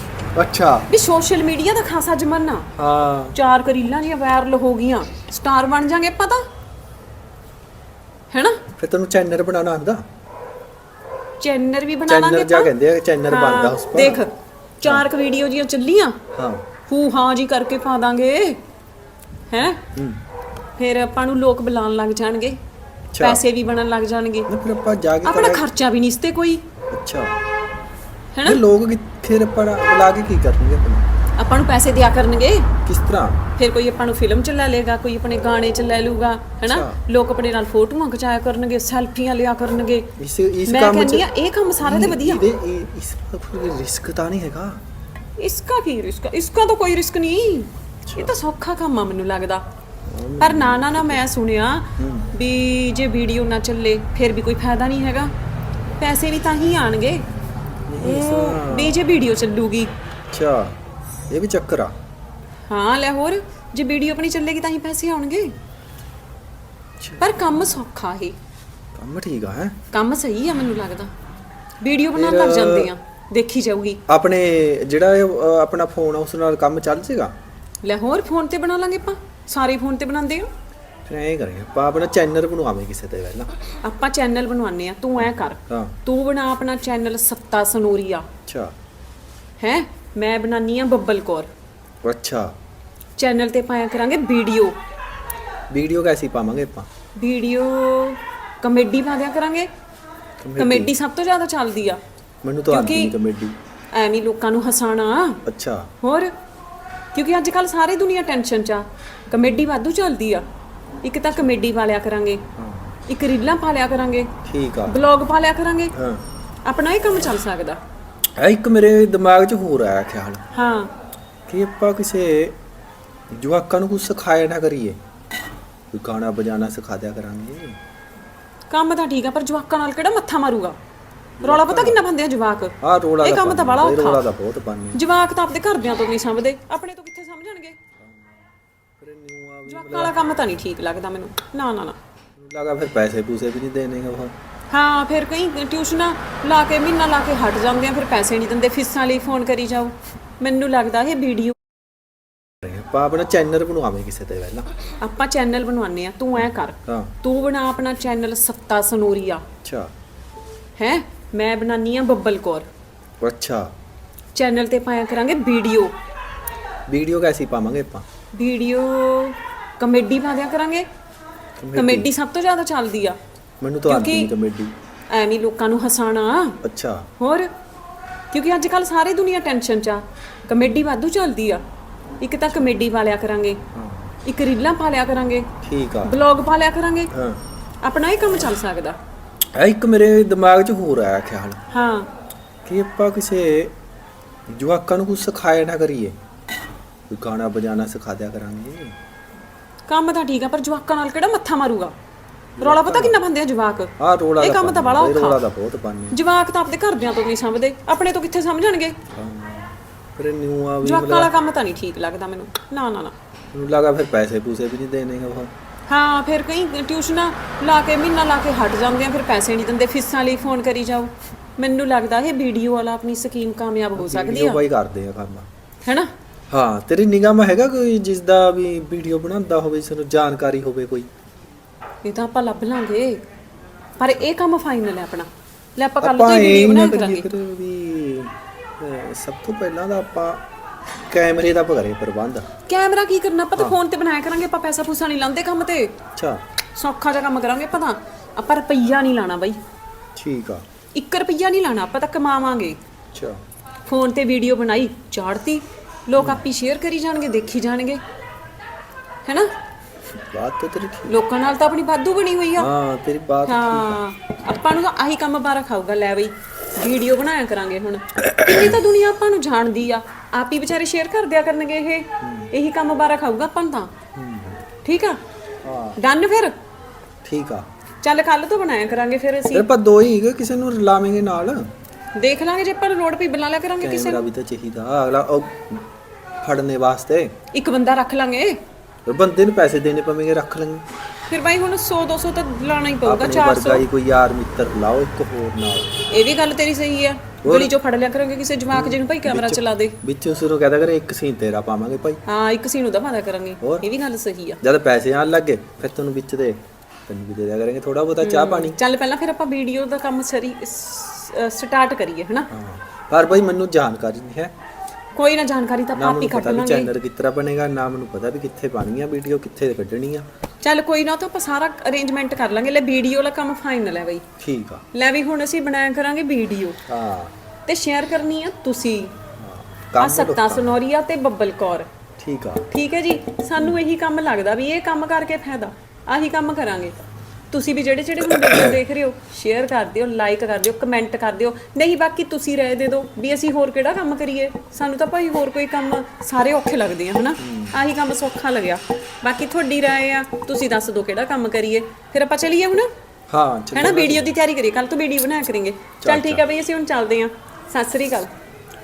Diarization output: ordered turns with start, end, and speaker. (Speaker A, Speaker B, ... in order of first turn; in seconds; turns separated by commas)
Speaker A: 0.3-0.9, Speaker B: 0.9-2.7, Speaker A: 2.8-3.4, Speaker B: 3.3-6.4, Speaker B: 8.3-8.6, Speaker A: 8.8-10.0, Speaker B: 11.4-12.7, Speaker A: 12.1-14.2, Speaker B: 13.3-16.2, Speaker A: 16.3-16.7, Speaker B: 16.9-18.6, Speaker B: 19.5-19.8, Speaker A: 19.9-20.2, Speaker B: 20.8-22.6, Speaker A: 23.1-23.4, Speaker B: 23.2-24.5, Speaker A: 24.5-25.6, Speaker B: 25.2-26.6, Speaker A: 26.9-27.4, Speaker B: 28.3-28.6, Speaker A: 28.4-31.0, Speaker B: 31.4-32.7, Speaker A: 32.9-33.4, Speaker B: 33.6-40.1, Speaker A: 36.7-37.0, Speaker A: 40.2-41.3, Speaker B: 40.6-42.4, Speaker A: 41.8-44.8, Speaker B: 45.4-49.6, Speaker A: 48.0-48.3, Speaker A: 50.1-51.2, Speaker B: 50.4-55.3, Speaker A: 52.0-52.3, Speaker B: 56.0-57.2, Speaker A: 57.9-59.0, Speaker B: 58.0-59.9, Speaker A: 60.3-60.8, Speaker A: 61.3-61.9, Speaker B: 62.7-65.5, Speaker B: 67.2-68.3, Speaker A: 68.9-69.8, Speaker B: 69.9-71.1, Speaker B: 71.8-74.0, Speaker A: 72.1-72.9, Speaker A: 74.1-77.3, Speaker B: 77.8-80.5, Speaker A: 81.0-83.5, Speaker B: 83.8-88.3, Speaker A: 85.2-85.9, Speaker A: 88.5-88.7, Speaker B: 89.6-91.5, Speaker A: 92.0-92.5, Speaker B: 93.2-94.8, Speaker A: 95.7-96.9, Speaker B: 97.2-99.7, Speaker A: 100.4-100.9, Speaker B: 100.6-102.0, Speaker A: 102.4-103.5, Speaker B: 102.7-103.1, Speaker B: 103.9-105.4, Speaker A: 105.4-105.9, Speaker B: 106.0-106.3, Speaker B: 107.1-110.4, Speaker B: 111.0-112.4, Speaker A: 112.6-113.0, Speaker B: 113.1-114.3, Speaker A: 114.5-115.0, Speaker B: 114.8-115.9, Speaker A: 115.9-116.2, Speaker B: 116.6-117.8, Speaker A: 118.4-120.4, Speaker B: 120.5-120.9, Speaker A: 121.5-122.6, Speaker A: 123.3-125.0, Speaker A: 125.9-127.8, Speaker B: 128.7-130.8, Speaker A: 131.4-132.0, Speaker B: 131.4-134.2, Speaker A: 132.8-135.0, Speaker B: 134.9-137.8, Speaker A: 138.0-140.3, Speaker B: 139.7-142.0, Speaker A: 142.3-144.3, Speaker B: 144.7-151.6, Speaker A: 152.6-154.7, Speaker B: 155.0-159.4, Speaker A: 156.4-157.1, Speaker A: 159.6-159.9, Speaker B: 160.8-162.7, Speaker A: 163.2-163.7, Speaker B: 164.3-165.9, Speaker A: 166.9-168.1, Speaker B: 168.3-170.9, Speaker A: 171.6-172.1, Speaker B: 171.7-173.2, Speaker A: 173.6-174.7, Speaker B: 173.9-174.3, Speaker B: 175.1-176.6, Speaker A: 176.6-177.1, Speaker B: 177.2-177.5, Speaker B: 178.3-181.6, Speaker B: 182.2-183.6, Speaker A: 183.7-184.2, Speaker B: 184.2-185.5, Speaker A: 185.6-186.2, Speaker B: 186.0-187.1, Speaker A: 187.1-187.4, Speaker B: 187.8-189.0, Speaker A: 189.5-191.6, Speaker B: 191.7-192.1, Speaker A: 192.6-193.7, Speaker A: 194.5-196.2, Speaker A: 197.1-199.0, Speaker B: 199.9-201.9, Speaker A: 202.6-203.2, Speaker B: 202.6-205.4, Speaker A: 204.0-206.2, Speaker B: 206.1-209.0, Speaker A: 209.1-211.3, Speaker B: 210.8-213.2, Speaker A: 213.5-215.5, Speaker B: 215.9-224.6, Speaker A: 223.9-225.5, Speaker B: 225.8-226.1, Speaker A: 226.5-231.1, Speaker B: 232.0-233.2, Speaker B: 234.0-237.3, Speaker A: 236.0-240.4, Speaker A: 241.0-242.5, Speaker B: 242.7-245.9, Speaker A: 246.2-246.4, Speaker B: 246.8-249.6, Speaker A: 250.2-250.6, Speaker B: 250.9-252.8, Speaker A: 253.1-253.4, Speaker B: 253.9-258.0, Speaker A: 256.2-256.4, Speaker B: 259.2-259.5, Speaker A: 260.1-261.2, Speaker B: 261.1-262.7, Speaker A: 262.6-264.0, Speaker B: 263.4-273.9, Speaker A: 268.2-268.8, Speaker A: 272.2-272.5, Speaker A: 274.1-274.6, Speaker B: 274.8-275.2, Speaker A: 275.6-276.0, Speaker B: 276.0-276.6, Speaker A: 277.2-277.7, Speaker B: 278.0-279.7, Speaker A: 279.5-281.7, Speaker B: 282.2-284.3, Speaker A: 283.8-285.9, Speaker A: 286.4-287.3, Speaker B: 287.5-288.6, Speaker A: 289.1-290.8, Speaker B: 291.3-293.8, Speaker A: 293.0-295.9, Speaker B: 296.1-299.9, Speaker A: 297.4-297.7, Speaker A: 298.7-302.2, Speaker B: 302.2-304.6, Speaker A: 303.6-303.9, Speaker A: 304.6-308.8, Speaker B: 308.2-312.5, Speaker A: 312.5-314.5, Speaker B: 315.1-316.9, Speaker A: 315.9-320.2, Speaker B: 320.6-324.2, Speaker A: 324.4-324.8, Speaker B: 324.9-326.8, Speaker A: 326.9-327.3, Speaker B: 327.7-329.1, Speaker A: 329.4-330.8, Speaker B: 330.0-331.9, Speaker A: 332.2-332.7, Speaker B: 332.7-337.0, Speaker B: 337.5-352.9, Speaker A: 338.3-338.8, Speaker A: 347.4-347.8, Speaker A: 353.3-354.4, Speaker B: 353.7-358.3, Speaker A: 356.0-356.4